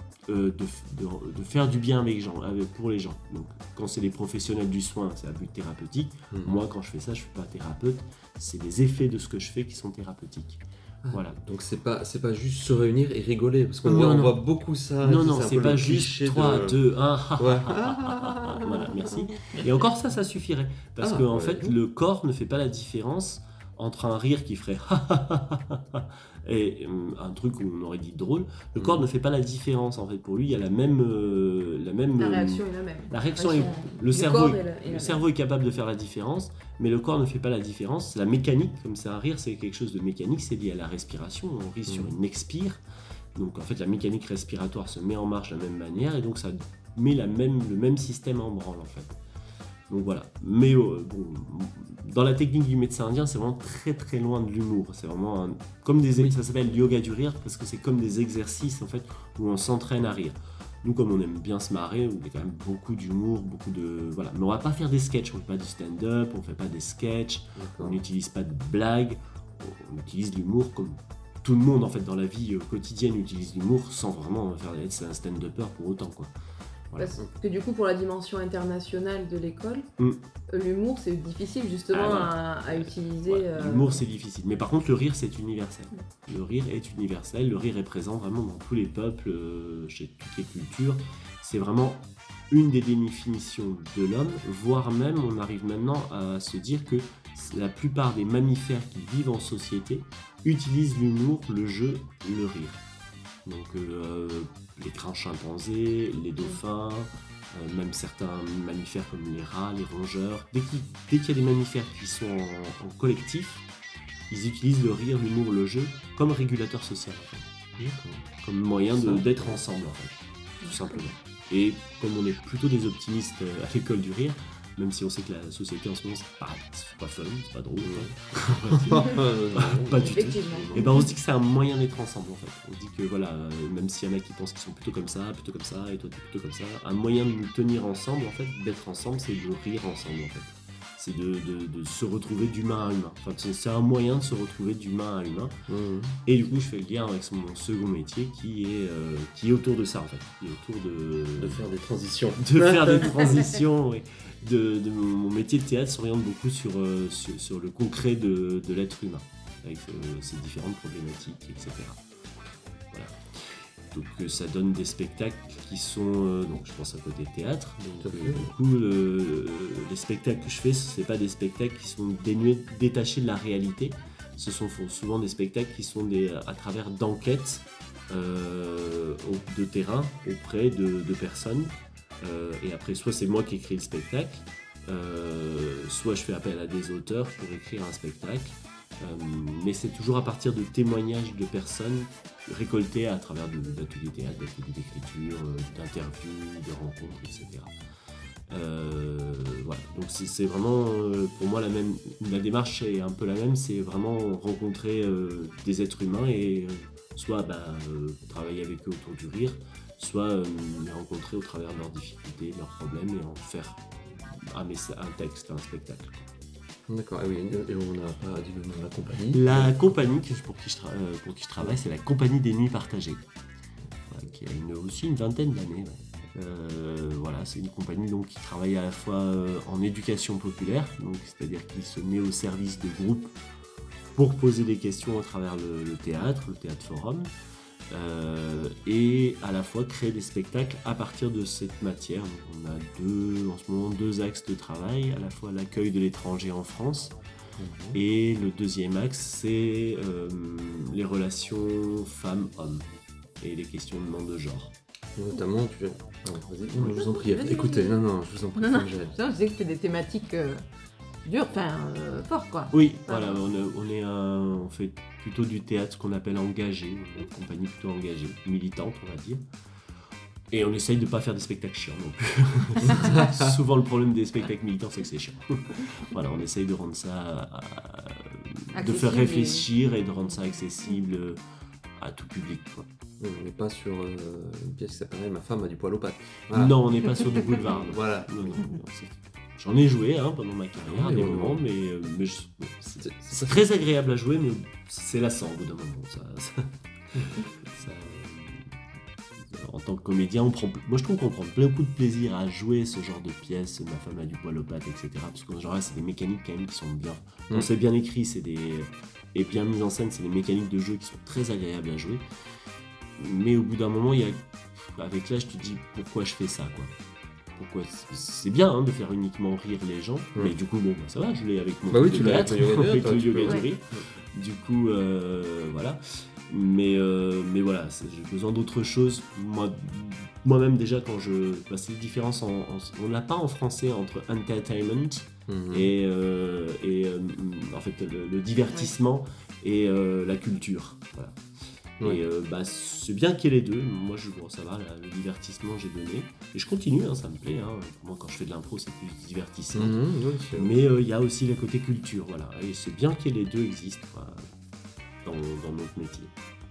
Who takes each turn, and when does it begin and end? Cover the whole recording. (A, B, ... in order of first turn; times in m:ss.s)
0:00.3-0:11.4 A
0:06.3-0:06.6 B
0:11.0-0:16.8 B
0:13.8-0:14.4 A
0:15.0-0:42.8 A
0:17.4-0:18.9 B
0:21.0-0:21.8 B
0:28.8-0:29.1 B
0:32.2-0:35.3 C
0:41.9-0:42.1 B
0:43.4-0:49.2 A
0:49.9-1:16.3 A
1:07.6-1:08.0 B
1:16.9-1:17.2 A
1:17.0-1:19.9 C
1:20.5-1:24.0 C
1:21.9-1:42.8 A
1:43.4-1:53.7 A
1:54.3-2:25.6 A
1:57.8-1:58.2 B
1:58.9-1:59.6 B
2:00.6-2:01.1 C
2:07.8-2:10.8 B
2:10.1-2:11.1 C
2:25.7-2:26.2 B
2:26.2-2:31.6 A
2:31.4-2:33.4 B
2:32.4-2:42.0 A
2:42.9-3:17.7 A
2:48.0-2:48.5 B
3:18.5-3:36.3 A
3:36.9-3:40.0 B
3:39.3-3:43.3 A
3:44.1-3:53.4 A
3:54.2-3:57.3 A
3:57.9-4:07.2 A
4:07.6-4:08.0 B
4:07.9-4:12.9 A
4:13.4-4:14.7 A
4:15.2-4:19.2 B
4:16.9-4:18.0 C
4:18.6-4:20.6 C
4:21.2-4:23.4 C
4:22.7-4:29.4 A
4:30.5-4:41.4 A
4:32.9-4:33.5 B
4:38.8-4:39.7 C
4:42.0-4:42.9 A
4:43.2-4:48.6 B
4:46.5-4:58.7 A
4:50.8-4:51.6 B
4:53.0-4:53.6 B
4:59.5-5:12.3 A
5:13.2-5:16.9 A
5:17.6-5:41.4 A
5:21.9-5:24.1 B
5:35.5-5:35.9 B
5:42.0-5:54.5 A
5:49.7-5:50.7 B
5:55.2-5:56.3 A